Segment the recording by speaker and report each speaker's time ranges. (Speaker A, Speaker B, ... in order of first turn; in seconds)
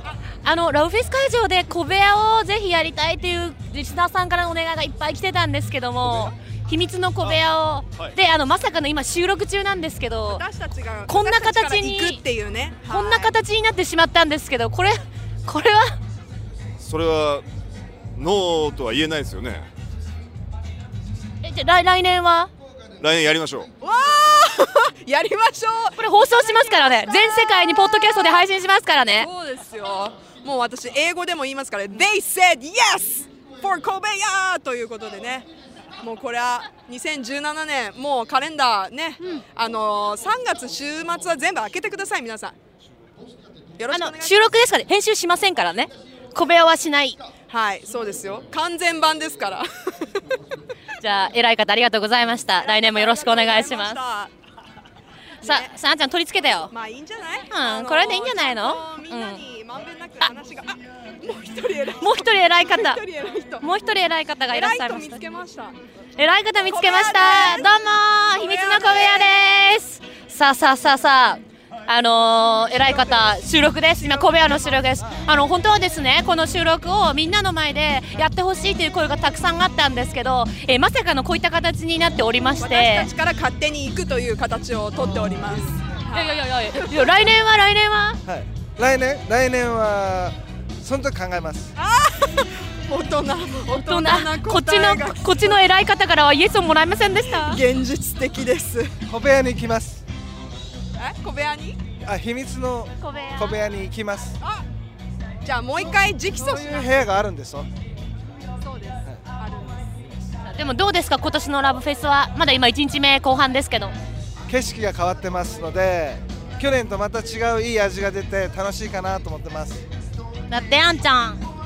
Speaker A: 0.4-10.4, 11.1-12.2, 12.9-15.9, 21.4-22.5, 26.0-29.3, 39.2-39.4, 43.9-47.2, 51.0-54.0, 55.4-56.7, 57.5-59.4, 62.0-63.0, 63.6-65.2, 66.2-83.1, 86.1-88.2, 93.7-97.6, 103.0-103.6, 110.5-114.0, 120.5-121.4
Speaker B: 10.3-13.3, 23.8-28.4, 29.2-35.5, 36.0-42.6, 43.8-44.6, 47.5-49.6, 52.6-54.3, 55.4-55.7, 56.6-63.7, 64.5-65.8, 66.6-69.4, 72.7-75.0, 82.6-87.2, 91.8-95.6, 97.3-98.9, 101.0-101.8, 105.4-107.2, 108.6-110.0
Speaker C: 16.8-17.4, 18.2-19.6, 23.0-23.7
Speaker D: 88.3-91.7, 99.1-100.0, 102.0-104.4, 106.4-107.7, 114.5-119.8